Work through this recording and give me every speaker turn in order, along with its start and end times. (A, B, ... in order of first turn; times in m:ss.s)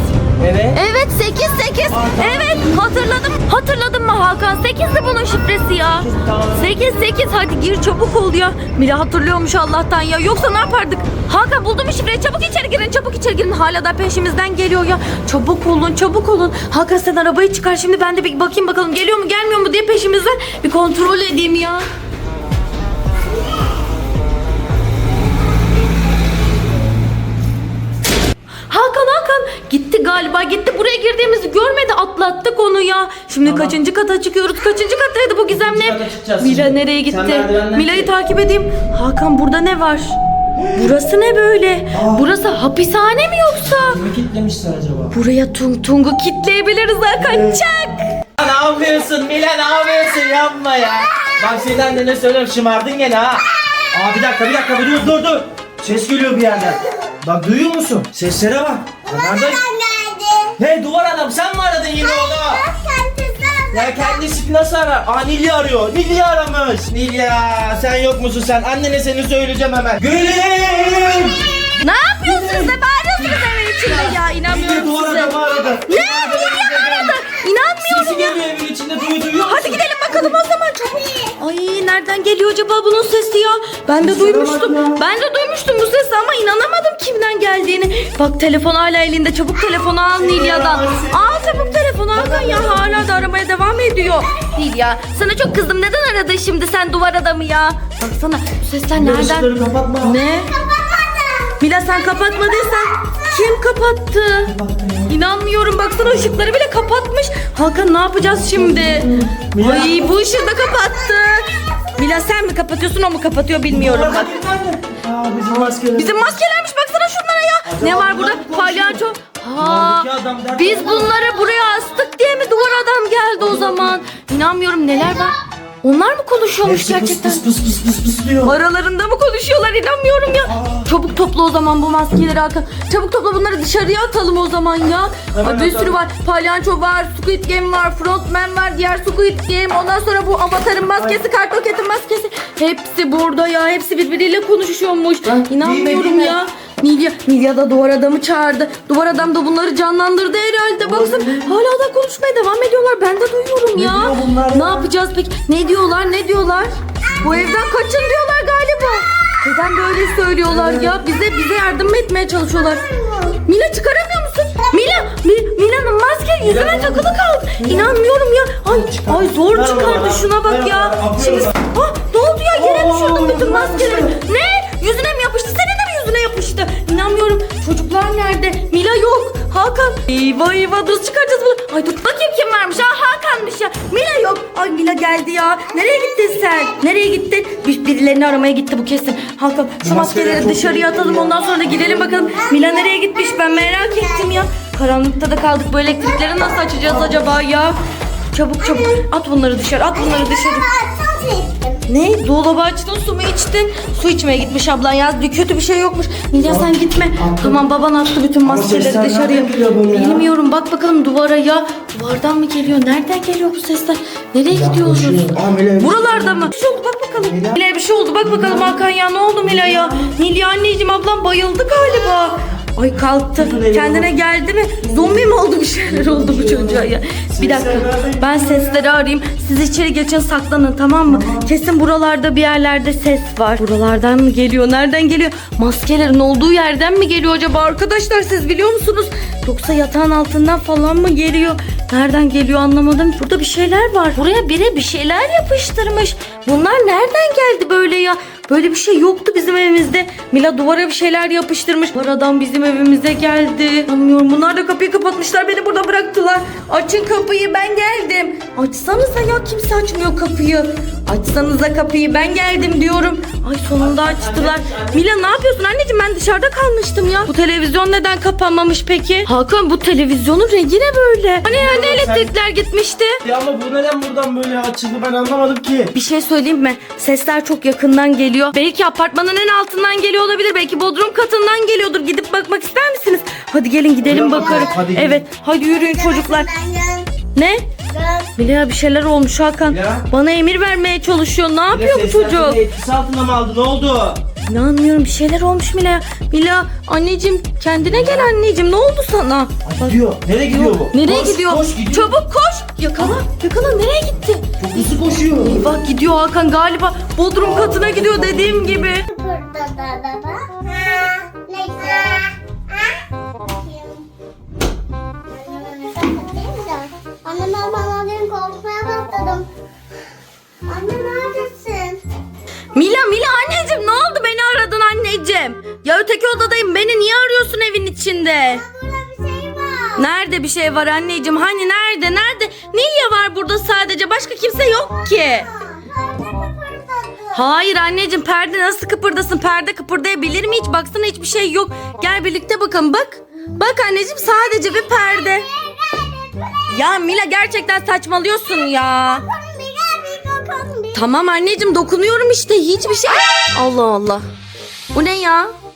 0:00.4-0:00.8 A
0:00.7-0:21.8 B
0:01.9-0:02.8 A
0:06.0-0:06.8 A
0:28.7-0:40.1 B
0:33.4-0:33.7 A
0:35.5-0:38.1 A
0:40.7-0:44.0 B
0:41.9-0:42.2 A
0:43.7-0:45.1 A
0:45.1-0:48.1 B
0:47.2-0:47.5 A
0:48.4-0:59.6 A
0:59.0-1:00.6 C
1:00.6-1:02.6 A
1:01.9-1:04.2 C
1:03.7-1:17.2 A
1:11.8-1:18.4 B
1:17.8-1:20.2 A
1:19.4-1:39.5 B
1:24.0-1:25.0 A
1:30.2-1:33.2 A
1:39.0-1:40.2 A
1:40.0-1:40.6 B
1:40.5-1:43.4 C
1:41.6-1:54.3 B
1:44.5-1:45.1 A
1:48.2-1:50.0 A
1:49.8-1:52.2 C
1:53.7-1:56.3 A
1:55.5-2:07.4 B
1:57.6-1:59.0 A
1:59.6-2:01.0 A
2:03.4-2:04.0 A
2:06.6-2:08.5 A
2:08.4-3:17.8 B
2:10.5-2:10.9 A
2:15.3-2:16.0 A
2:25.2-2:26.4 A
2:30.8-2:31.5 A
2:33.7-2:34.9 A
2:40.4-2:41.0 A
2:42.6-2:43.4 C
2:46.4-2:48.0 A
2:48.7-2:51.6 A
2:52.5-2:54.1 A
3:05.8-3:06.6 C
3:09.8-3:12.3 A
3:12.2-3:14.4 C
3:18.3-3:20.7 B
3:18.6-3:19.0 C
3:19.9-3:21.8 C
3:21.9-4:33.2 B
3:26.4-3:27.6 A
3:28.4-3:30.2 A
3:34.5-3:36.5 A
3:37.2-3:37.6 A
3:38.2-3:38.8 A
3:39.4-3:40.0 A
3:43.4-3:44.1 A
3:44.9-3:45.2 A
3:45.9-3:48.8 A
3:51.1-3:51.5 A
4:23.8-4:25.2 A
4:31.4-4:32.3 A
4:33.2-4:35.9 A
4:35.9-4:46.5 B
4:44.0-4:45.2 A
4:44.2-4:44.7 C
4:45.7-4:47.1 C
4:47.3-4:47.7 B
4:47.9-4:48.3 C
4:48.4-4:52.6 B
4:49.6-4:50.0 A
4:51.7-4:54.2 A
4:54.4-5:04.9 B
4:59.6-5:02.1 A
5:04.6-5:05.6 A
5:05.4-5:09.0 B
5:07.4-5:08.9 A
5:09.0-5:14.0 C
5:15.3-5:19.5 C
5:20.7-5:22.0 C
5:22.7-5:28.6 B
5:28.5-5:30.0 C
5:29.9-5:35.5 B
5:34.9-5:37.4 C
5:37.3-5:45.5 B
5:44.2-5:46.9 C
5:46.7-5:49.2 B
5:48.7-5:51.0 C
5:50.9-5:54.2 B
5:54.9-5:55.5 B